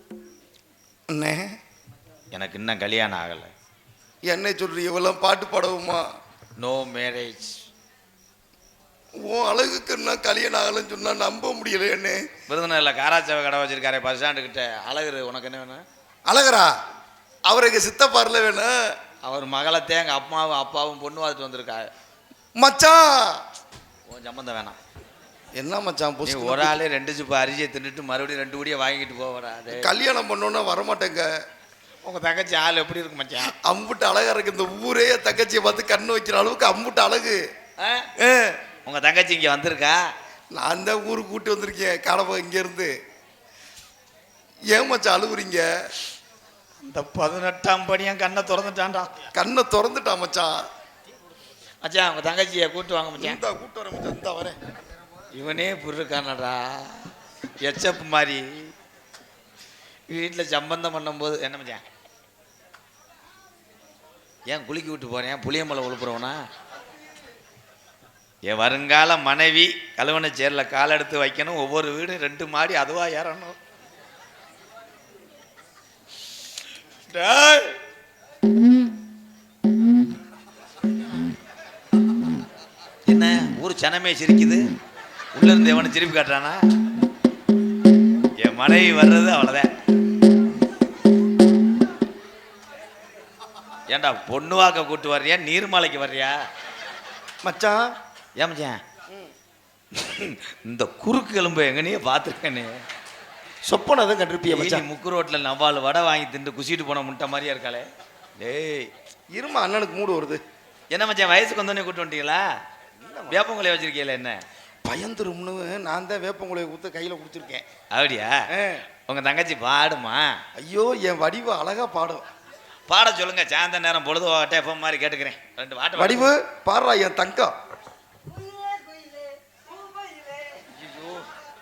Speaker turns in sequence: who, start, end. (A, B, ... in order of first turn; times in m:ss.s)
0:01.1-0:01.5 A
0:02.3-0:03.5 B
0:04.2-0:06.0 A
0:06.6-0:07.6 B
0:09.2-0:12.2 A
0:12.5-0:15.8 B
0:16.2-0:16.7 A
0:17.5-0:18.7 A
0:19.2-0:21.9 B
0:22.6-0:23.1 A
0:24.1-0:24.8 B
0:25.5-0:26.8 A
0:26.2-0:29.9 B
0:29.7-0:31.3 A
0:32.0-0:33.5 B
0:33.6-0:37.4 A
0:37.8-0:38.1 B
0:38.2-0:38.6 A
0:38.8-0:40.0 B
0:40.5-0:42.9 A
0:44.7-0:45.6 A
0:46.8-0:49.1 B
0:49.3-0:50.5 A
0:51.8-0:53.4 B
0:53.2-0:54.6 A
0:55.3-0:56.9 B
0:57.6-0:58.7 B
1:00.1-1:01.8 B
1:04.5-1:06.4 B
1:08.4-1:13.6 B
1:17.1-1:17.8 B
1:23.1-1:24.6 B
1:25.3-1:26.6 B
1:28.4-1:29.7 B
1:33.9-1:36.4 B
1:37.4-1:37.8 A
1:38.4-1:38.8 B
1:39.9-1:42.8 B
1:43.6-1:44.9 A
1:44.5-1:47.9 B
1:48.4-1:48.9 B
1:49.3-1:50.4 A
1:50.9-1:52.4 B
1:53.0-1:53.5 A
1:53.3-1:54.4 B
1:54.8-1:57.6 A
1:57.9-1:58.4 B
1:58.5-1:58.8 A
1:59.1-2:00.4 B
2:00.5-2:02.2 A
2:02.9-2:06.3 B
2:06.0-2:07.5 A
2:08.2-2:10.6 C
2:10.7-2:11.2 B